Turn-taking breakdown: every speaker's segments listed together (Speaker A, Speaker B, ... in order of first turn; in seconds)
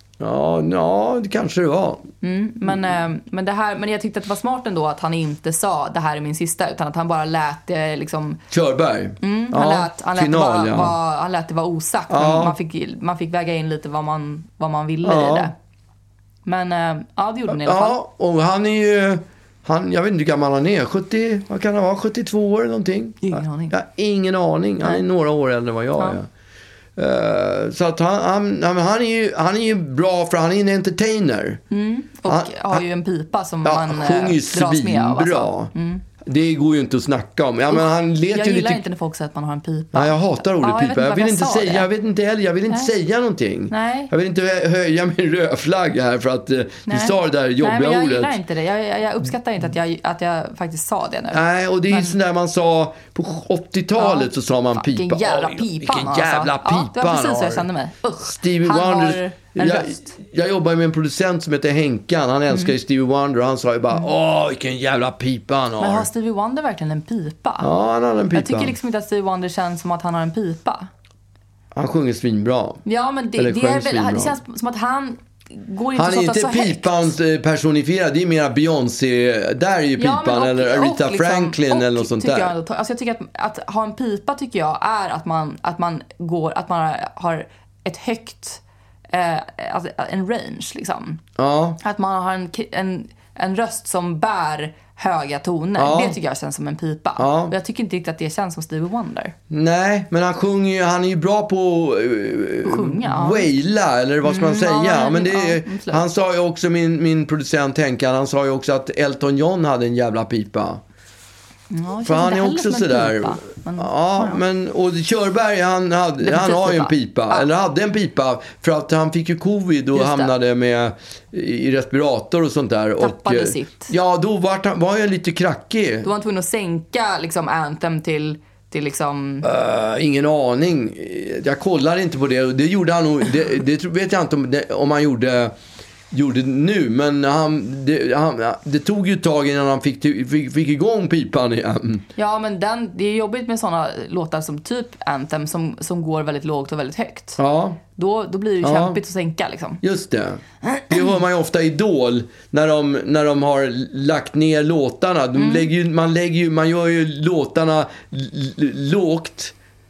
Speaker A: 0.2-2.1, 8.5-10.9, 12.1-12.6, 15.0-15.5, 17.5-26.3, 26.9-31.6, 32.2-32.8, 33.6-38.8, 39.9-48.4, 51.3-57.6, 58.2-66.1, 67.6-68.8, 71.7-72.8, 73.4-74.4, 75.9-82.5, 91.4-91.8, 95.8-96.2, 97.2-97.5, 99.5-110.8, 112.0-126.1, 129.4-135.5, 136.1-142.0, 147.4-147.8, 148.6-149.0, 149.8-159.5
Speaker B: 2.2-8.4, 9.2-15.5, 16.4-18.0, 23.2-23.8, 31.7-36.0, 37.7-41.9, 43.7-44.1, 46.9-52.2, 54.0-60.1, 62.5-62.7, 65.8-67.7, 68.3-70.9, 72.8-77.1, 80.0-91.2, 91.8-99.3, 102.6-103.5, 104.2-106.0, 111.7-114.4, 116.2-117.5, 119.9-120.3, 123.0-123.9, 126.0-129.5, 142.2-147.4, 147.9-149.8, 155.3-155.7